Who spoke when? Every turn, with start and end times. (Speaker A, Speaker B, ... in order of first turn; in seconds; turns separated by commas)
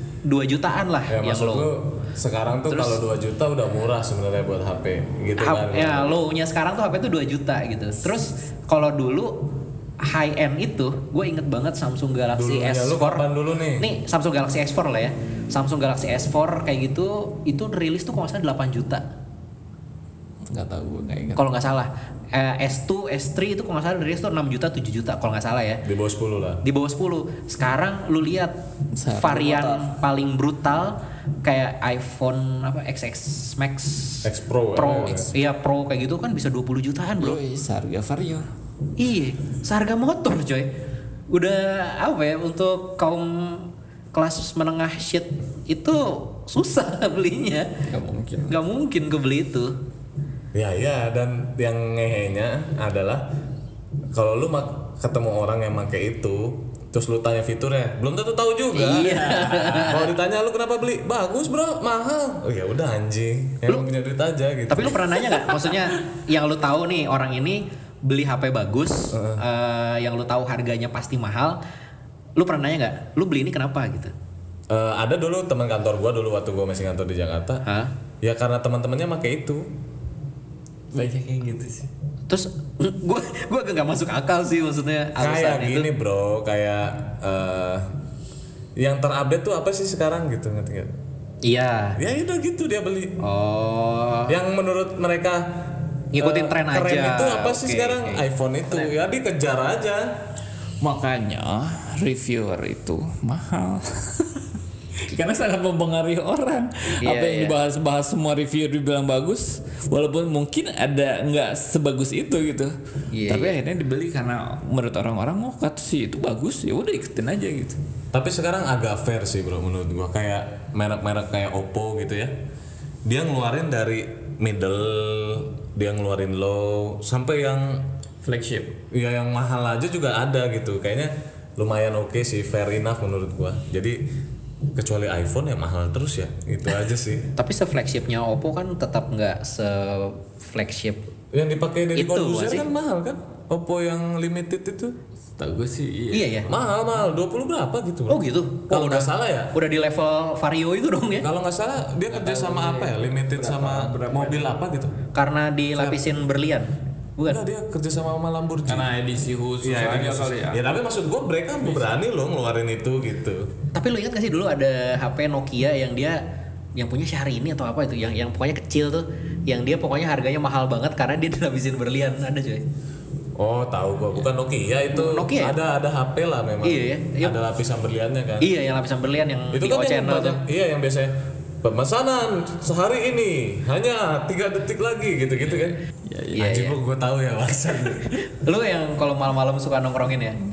Speaker A: 0.2-1.7, Speaker B: 1.1-6.1, Speaker A: 2.7-3.0, Speaker A: 5.4-9.3, Speaker A: 10.0-13.3, Speaker B: 12.3-13.9, Speaker A: 13.8-19.0, Speaker C: 20.5-21.6, Speaker A: 21.4-25.8, Speaker B: 25.8-26.6, Speaker A: 26.6-28.5, Speaker C: 28.9-30.0, Speaker A: 29.1-37.4, Speaker B: 34.2-35.3, Speaker C: 37.2-38.5, Speaker A: 39.0-40.7, Speaker A: 41.3-47.8, Speaker C: 47.9-48.5, Speaker A: 48.5-49.7, Speaker B: 50.5-53.3, Speaker B: 54.1-65.2, Speaker A: 58.7-60.1, Speaker C: 59.0-60.0, Speaker A: 64.7-71.6, Speaker B: 69.1-69.4, Speaker A: 72.3-74.1, Speaker B: 74.7-77.6, Speaker A: 77.6-77.9, Speaker B: 78.2-79.7, Speaker C: 80.9-81.9, Speaker A: 82.3-85.9, Speaker B: 85.2-87.9, Speaker B: 88.8-90.9, Speaker A: 91.4-92.0, Speaker B: 92.0-93.2, Speaker A: 93.2-94.4, Speaker B: 94.3-100.1, Speaker A: 96.1-98.2, Speaker C: 100.8-104.4, Speaker C: 105.0-112.7, Speaker A: 107.0-107.5, Speaker A: 113.1-113.6, Speaker C: 113.2-117.8, Speaker B: 118.1-122.3, Speaker B: 123.0-127.9, Speaker C: 128.2-128.8, Speaker B: 128.9-134.0, Speaker B: 134.8-137.3, Speaker A: 137.3-141.0, Speaker B: 141.3-144.9, Speaker A: 141.9-142.7, Speaker C: 145.4-146.5, Speaker A: 146.1-146.5, Speaker B: 146.5-149.6, Speaker A: 148.1-151.3, Speaker B: 151.2-154.9, Speaker C: 152.1-154.6, Speaker A: 155.1-157.4, Speaker B: 157.3-158.9, Speaker C: 158.7-160.6, Speaker B: 159.6-163.5, Speaker A: 163.7-166.2, Speaker A: 166.8-172.6, Speaker B: 173.4-178.5, Speaker A: 174.9-175.6, Speaker A: 176.6-177.3, Speaker A: 178.4-180.4, Speaker B: 179.5-185.8, Speaker C: 185.5-186.5, Speaker A: 186.3-186.8, Speaker B: 186.3-188.2, Speaker A: 188.1-190.4